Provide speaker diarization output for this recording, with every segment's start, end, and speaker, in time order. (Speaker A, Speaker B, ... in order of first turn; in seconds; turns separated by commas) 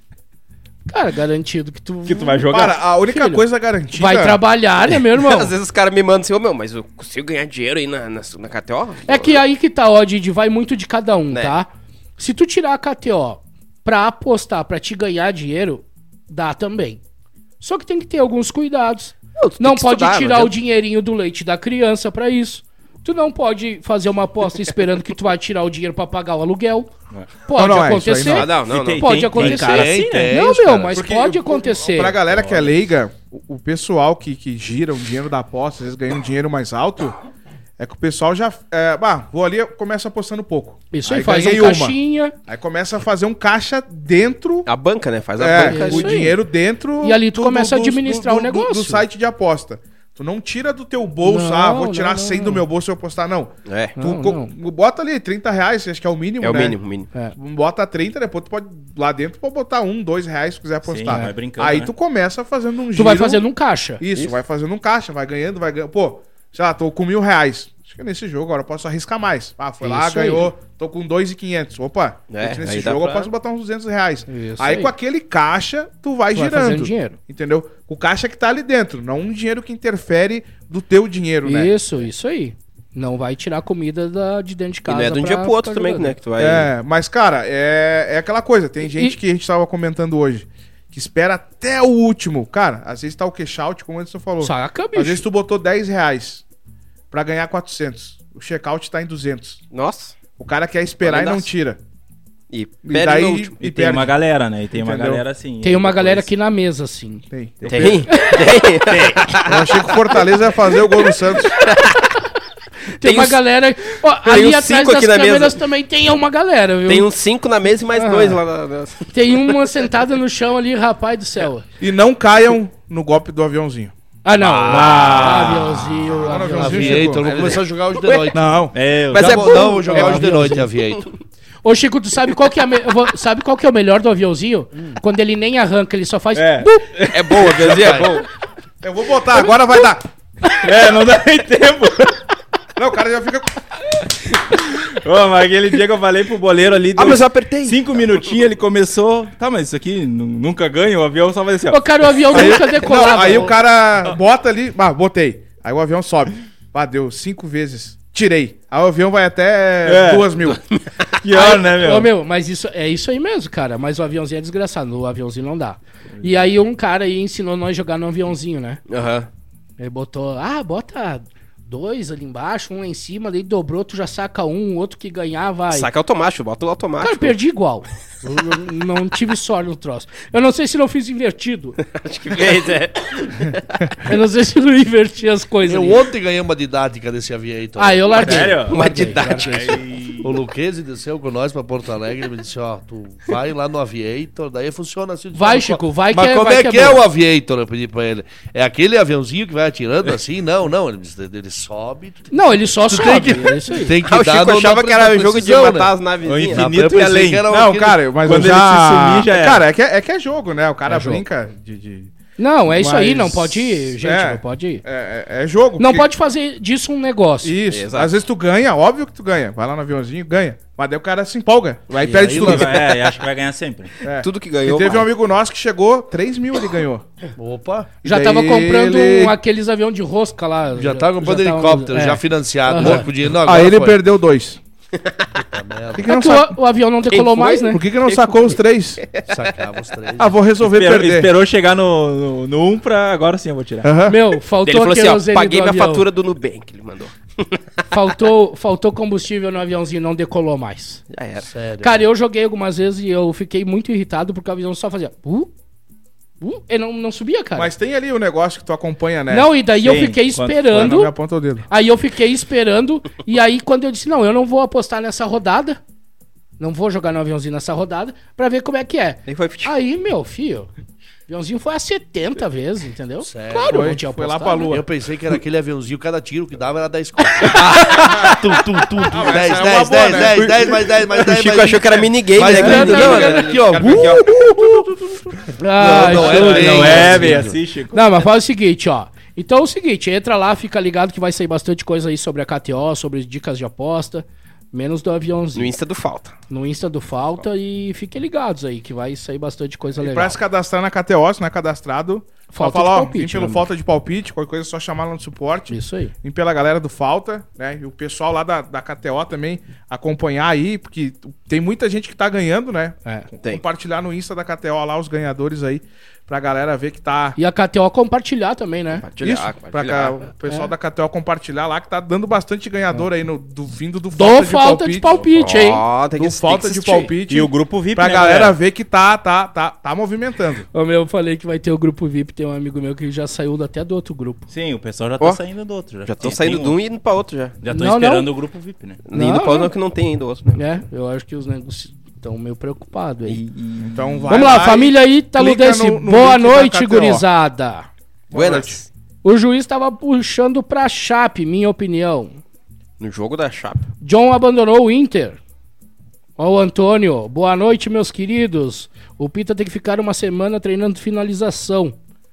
Speaker A: 0.9-5.5, Speaker B: 2.0-2.8, Speaker C: 2.5-4.4, Speaker D: 5.1-9.4, Speaker A: 9.1-17.0, Speaker A: 17.6-26.9, Speaker D: 19.4-20.5, Speaker A: 27.4-32.2, Speaker C: 27.6-28.5, Speaker D: 28.3-29.5, Speaker B: 28.6-30.3, Speaker E: 29.4-31.0, Speaker C: 30.9-37.2, Speaker C: 37.8-44.7, Speaker A: 40.9-42.4, Speaker D: 44.7-46.3, Speaker C: 45.4-56.8, Speaker A: 45.6-46.4, Speaker A: 47.0-49.0, Speaker A: 51.2-52.6, Speaker D: 53.7-54.0, Speaker A: 54.0-54.5, Speaker D: 56.4-57.1, Speaker C: 57.4-63.5, Speaker B: 60.8-61.9, Speaker A: 61.1-61.3, Speaker A: 63.0-64.0, Speaker C: 64.0-81.7, Speaker A: 69.8-70.5, Speaker D: 72.3-73.3, Speaker A: 74.3-74.9, Speaker A: 76.3-77.2, Speaker A: 81.5-86.2, Speaker D: 84.9-86.7, Speaker C: 86.4-96.4, Speaker A: 94.4-95.2, Speaker C: 97.1-99.6, Speaker D: 99.7-100.2, Speaker C: 100.4-101.8, Speaker D: 101.0-101.5, Speaker D: 102.5-103.5, Speaker C: 102.8-104.2, Speaker B: 103.6-106.3, Speaker C: 104.7-105.2, Speaker A: 105.6-107.2, Speaker C: 107.3-108.1, Speaker B: 107.6-108.0, Speaker D: 107.7-110.2, Speaker A: 108.1-108.5, Speaker C: 109.5-111.6, Speaker D: 111.5-112.1, Speaker A: 113.0-117.1, Speaker D: 113.0-113.4, Speaker D: 114.2-115.6, Speaker D: 116.9-119.6, Speaker A: 117.9-118.4, Speaker A: 119.1-121.7, Speaker C: 121.8-123.9, Speaker A: 124.2-127.2, Speaker D: 124.4-125.8, Speaker C: 124.7-127.2, Speaker E: 126.5-128.6, Speaker D: 127.0-128.3, Speaker C: 128.3-128.8, Speaker B: 128.7-129.6, Speaker E: 129.1-131.1, Speaker D: 129.1-130.3, Speaker A: 129.3-130.7, Speaker A: 131.6-136.9, Speaker B: 136.3-137.7, Speaker D: 137.1-138.3, Speaker E: 137.4-138.2, Speaker C: 138.8-140.1, Speaker B: 140.5-142.2, Speaker C: 142.8-143.6, Speaker B: 144.5-152.6, Speaker D: 146.9-148.2, Speaker A: 151.7-153.6, Speaker C: 152.3-160.6, Speaker B: 159.8-160.3, Speaker D: 160.5-161.1, Speaker B: 161.2-162.1, Speaker A: 161.3-168.8, Speaker D: 168.9-169.3, Speaker A: 169.8-175.9, Speaker D: 175.7-177.4, Speaker A: 177.0-181.8, Speaker D: 181.8-183.9, Speaker A: 184.0-186.0, Speaker E: 185.7-205.9, Speaker A: 187.8-189.5, Speaker B: 188.2-190.3, Speaker D: 188.4-189.8, Speaker A: 195.3-197.0, Speaker A: 202.3-204.0, Speaker D: 204.0-206.9, Speaker B: 206.2-207.5, Speaker E: 206.5-208.3, Speaker C: 207.5-212.1, Speaker B: 208.2-209.6, Speaker A: 210.9-211.2, Speaker A: 212.4-214.8, Speaker C: 212.7-216.1, Speaker A: 215.8-217.6, Speaker C: 217.4-222.8, Speaker D: 217.7-218.1, Speaker E: 222.0-222.8, Speaker B: 222.3-223.9, Speaker C: 224.0-227.1, Speaker D: 224.2-225.1, Speaker E: 227.4-227.9, Speaker A: 228.0-233.1, Speaker C: 228.1-229.4, Speaker E: 230.8-234.0, Speaker C: 232.8-234.6, Speaker E: 235.3-236.1, Speaker C: 235.9-236.6, Speaker A: 236.1-237.8, Speaker D: 237.1-239.6, Speaker C: 237.6-239.0, Speaker E: 239.3-240.4, Speaker C: 240.2-241.3, Speaker B: 240.7-243.9, Speaker C: 243.8-244.2, Speaker A: 244.1-246.1, Speaker D: 244.6-247.6, Speaker A: 247.9-251.0, Speaker D: 251.1-251.5, Speaker E: 251.5-252.0, Speaker A: 251.8-255.5, Speaker A: 256.4-257.7, Speaker C: 257.6-259.5, Speaker A: 259.3-261.1, Speaker B: 259.7-261.0, Speaker C: 260.7-261.7, Speaker A: 261.7-265.8, Speaker A: 266.6-270.7, Speaker D: 269.3-269.7, Speaker A: 271.3-274.8, Speaker E: 273.2-274.0, Speaker C: 273.7-274.9, Speaker E: 274.7-287.6, Speaker D: 277.4-278.4, Speaker C: 279.1-280.6, Speaker D: 280.2-284.2, Speaker A: 282.4-283.6, Speaker C: 282.9-284.9, Speaker A: 285.6-295.7, Speaker B: 286.0-288.3, Speaker D: 295.6-296.4, Speaker A: 296.5-300.4, Speaker C: 300.0-317.4, Speaker A: 302.5-303.7, Speaker A: 305.7-306.1, Speaker A: 317.4-319.1, Speaker D: 319.0-320.2, Speaker C: 319.2-325.5, Speaker A: 320.5-320.7, Speaker A: 324.1-325.8, Speaker D: 325.4-327.1, Speaker C: 326.2-330.7, Speaker B: 327.3-328.6, Speaker A: 330.7-334.4, Speaker B: 334.5-336.8, Speaker D: 336.1-337.6, Speaker B: 337.6-339.0, Speaker A: 337.7-338.3, Speaker D: 339.1-340.6, Speaker A: 339.1-339.7, Speaker A: 340.6-343.4, Speaker D: 343.3-344.0, Speaker C: 343.8-347.3, Speaker A: 344.3-347.9, Speaker C: 348.3-348.8, Speaker D: 348.3-348.9, Speaker A: 349.2-352.4, Speaker D: 353.0-353.9, Speaker A: 354.0-355.4, Speaker A: 356.4-361.9